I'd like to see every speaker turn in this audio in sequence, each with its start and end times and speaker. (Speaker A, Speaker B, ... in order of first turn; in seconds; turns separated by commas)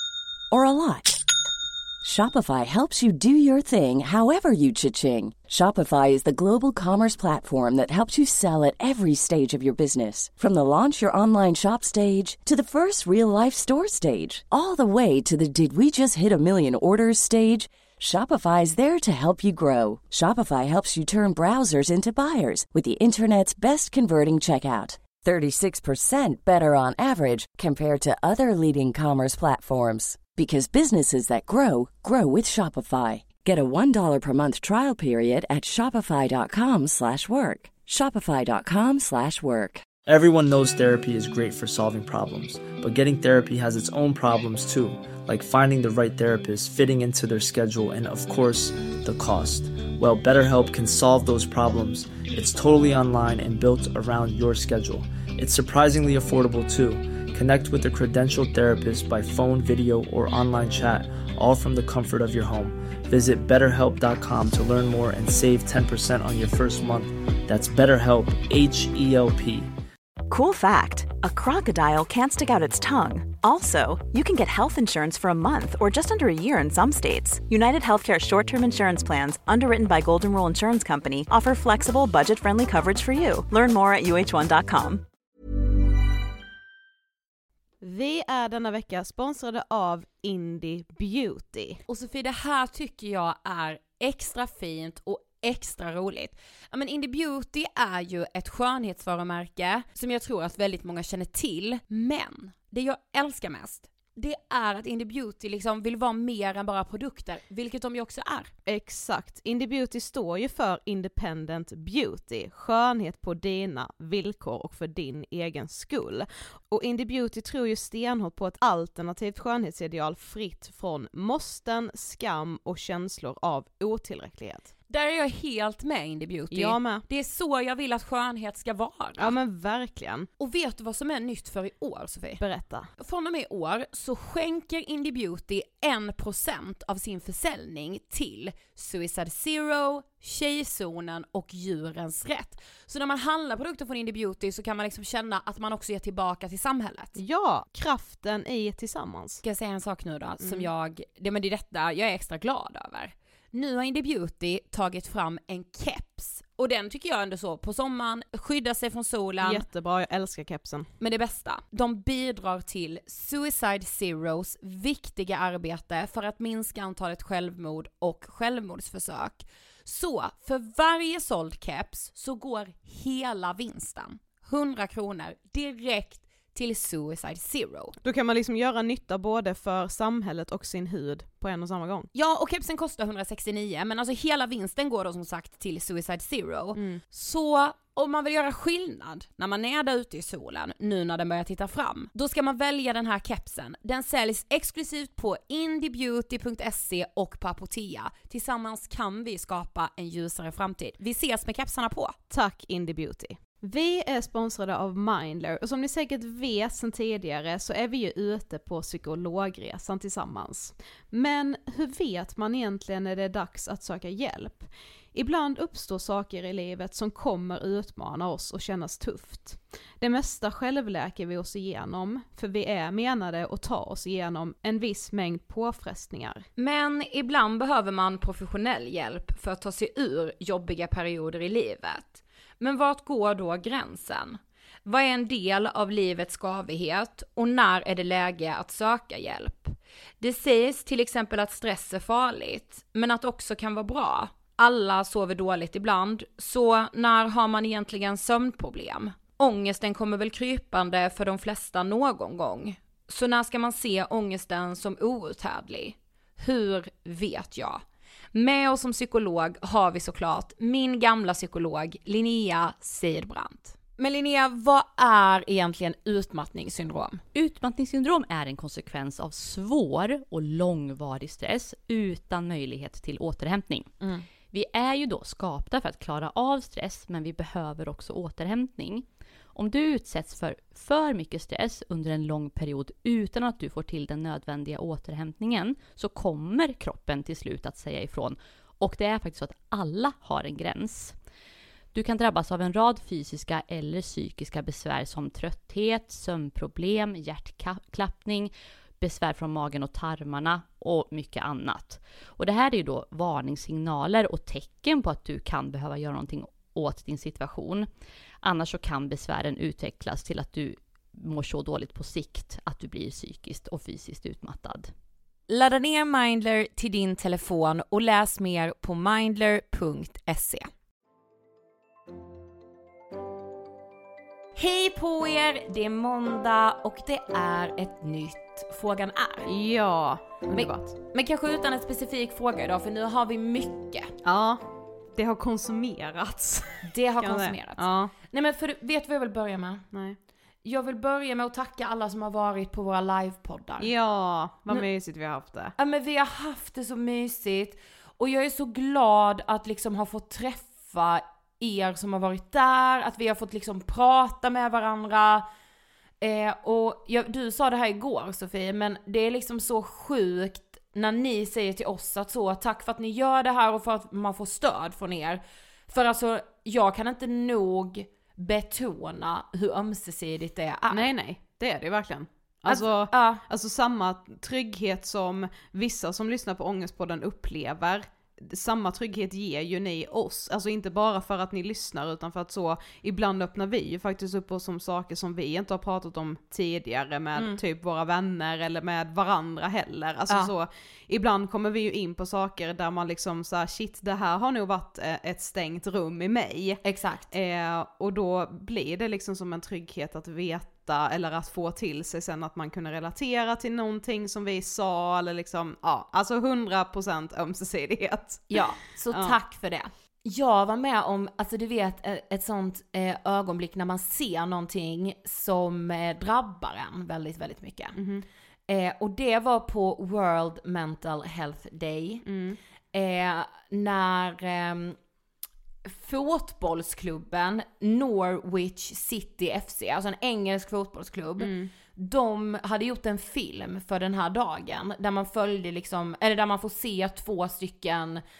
Speaker A: 0.5-1.2, Speaker A: 2.0-39.8, Speaker B: 40.0-69.7, Speaker C: 70.3-85.0, Speaker D: 87.8-91.8, Speaker E: 91.9-108.5, Speaker D: 108.7-124.7, Speaker E: 124.9-129.3, Speaker D: 126.5-127.0, Speaker D: 129.2-130.3, Speaker E: 130.4-132.4, Speaker D: 132.4-132.9, Speaker E: 133.0-147.2, Speaker D: 147.2-149.4, Speaker E: 149.4-159.6, Speaker D: 150.4-150.7, Speaker D: 159.4-160.9, Speaker E: 161.0-177.9, Speaker D: 178.0-182.1, Speaker E: 182.1-202.2, Speaker D: 186.8-187.0, Speaker D: 202.3-226.5, Speaker E: 226.6-257.8, Speaker E: 258.3-267.2, Speaker F: 267.3-273.9, Speaker E: 274.0-274.2, Speaker F: 274.5-291.1, Speaker F: 291.9-307.9, Speaker F: 308.4-314.9, Speaker E: 315.5-320.7, Speaker E: 324.6-329.5, Speaker D: 329.4-330.9, Speaker E: 330.5-334.1, Speaker D: 334.2-338.1, Speaker E: 336.9-339.9, Speaker D: 339.9-340.2, Speaker E: 340.6-343.9, Speaker D: 343.8-345.7, Speaker E: 345.8-355.5, Speaker E: 356.2-371.1, Speaker D: 370.9-396.8, Speaker E: 372.7-373.4, Speaker E: 396.8-397.3, Speaker D: 397.3-409.4, Speaker E: 408.5-418.0, Speaker D: 417.9-418.2, Speaker E: 418.7-422.2, Speaker D: 422.2-422.6, Speaker E: 422.9-425.0, Speaker E: 425.9-438.2, Speaker D: 431.4-431.7